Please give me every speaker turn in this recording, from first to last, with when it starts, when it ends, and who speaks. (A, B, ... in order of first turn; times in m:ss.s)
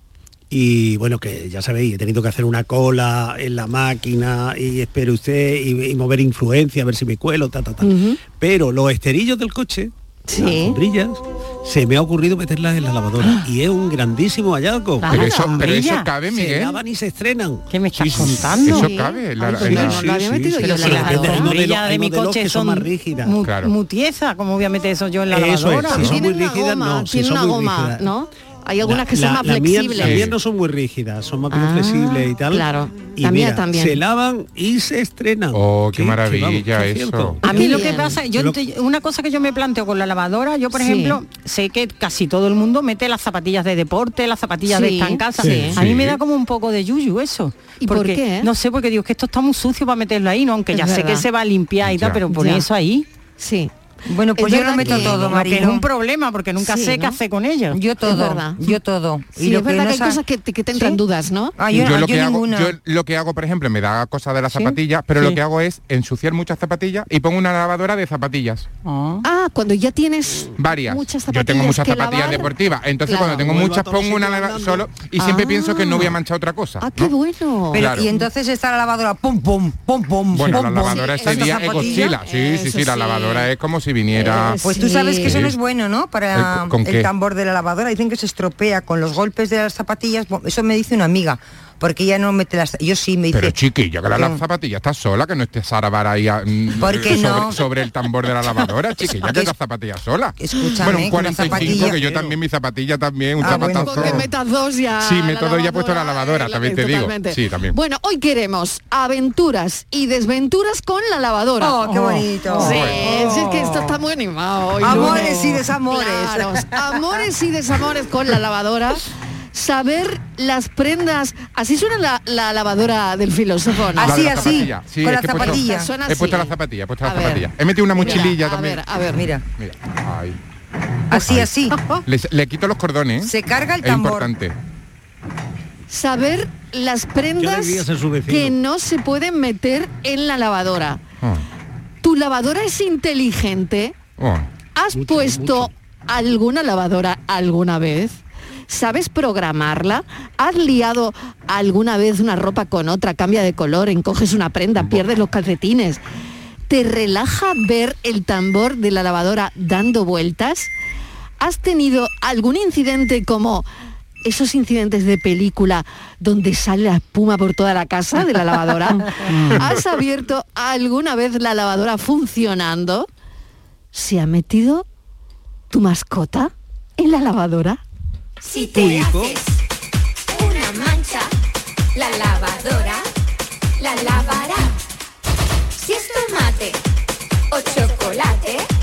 0:00.5-0:15.6 A
0:07.8-0:08.2 B
0:10.3-0:10.8 B
0:15.0-0:16.1 C
0:15.1-0:16.8 D
0:15.1-0:15.5 B
0:16.3-0:18.6 A
0:17.7-0:18.9 C
0:18.2-0:20.1 D
0:18.6-0:21.5 B
0:19.5-0:23.4 A
0:20.6-0:26.1 C
0:23.4-0:23.7 D
0:25.3-0:28.1 A
0:25.9-0:30.3 B
0:28.8-0:38.6 A
0:30.0-0:30.3 D
0:31.5-0:34.0 B
0:35.5-0:37.4 D
0:37.4-0:53.0 C
0:37.4-0:38.2 B
0:40.7-0:41.2 B
0:44.6-0:45.7 B
0:45.4-0:45.8 A
0:45.8-0:46.2 D
0:47.8-0:48.5 B
0:50.7-0:51.2 B
0:51.8-0:52.2 D
0:52.3-0:52.6 B
0:53.4-0:53.7 B
0:54.1-0:55.8 E
0:54.4-0:55.4 B
0:54.8-0:57.8 C
0:56.6-0:57.2 B
0:57.7-1:00.2 E
0:58.0-0:58.8 B
0:59.4-1:01.5 B
1:00.7-1:01.0 E
1:01.6-1:02.7 E
1:01.8-1:08.6 D
1:08.8-1:09.2 C
1:09.2-1:12.5 B
1:10.6-1:17.1 D
1:13.0-1:13.4 B
1:13.1-1:14.9 A
1:15.2-1:16.2 B
1:16.8-1:18.2 B
1:17.7-1:22.1 E
1:17.7-1:18.1 D
1:20.3-1:24.6 D
1:20.4-1:23.5 B
1:24.1-1:25.5 B
1:24.6-1:34.4 E
1:25.2-1:25.6 D
1:26.3-1:27.1 D
1:33.3-1:44.3 D
1:36.8-1:37.6 E
1:39.0-1:39.5 E
1:40.4-1:42.0 E
1:41.2-1:42.3 A
1:43.4-1:44.3 E
1:43.4-1:51.8 B
1:45.0-1:47.8 D
1:51.6-1:53.5 E
1:51.8-1:52.7 C
1:52.5-2:04.7 B
1:52.6-1:53.0 D
1:54.8-1:57.0 E
1:54.8-1:55.3 C
2:04.0-2:05.9 E
2:04.0-2:08.9 D
2:05.3-2:09.3 B
2:08.0-2:08.3 E
2:09.1-2:09.4 E
2:09.6-2:10.4 D
2:11.1-2:11.9 E
2:11.1-2:11.5 D
2:12.0-2:13.3 D
2:13.2-2:14.3 E
2:13.8-2:14.5 D
2:15.9-2:21.0 B
2:17.4-2:18.6 A
2:22.0-2:24.0 B
2:24.2-2:24.5 D
2:24.7-2:36.0 B
2:24.9-2:25.7 A
2:36.7-2:40.7 B
2:41.4-2:43.6 B
2:44.2-2:53.1 B
2:49.0-2:49.6 C
2:53.9-2:54.8 B
2:55.7-2:57.8 B
2:58.4-2:59.6 F
2:58.7-2:59.4 A
3:00.3-3:01.3 F
3:01.9-3:03.0 F
3:03.8-3:04.7 F
3:05.8-3:06.8 F
3:07.5-3:08.7 F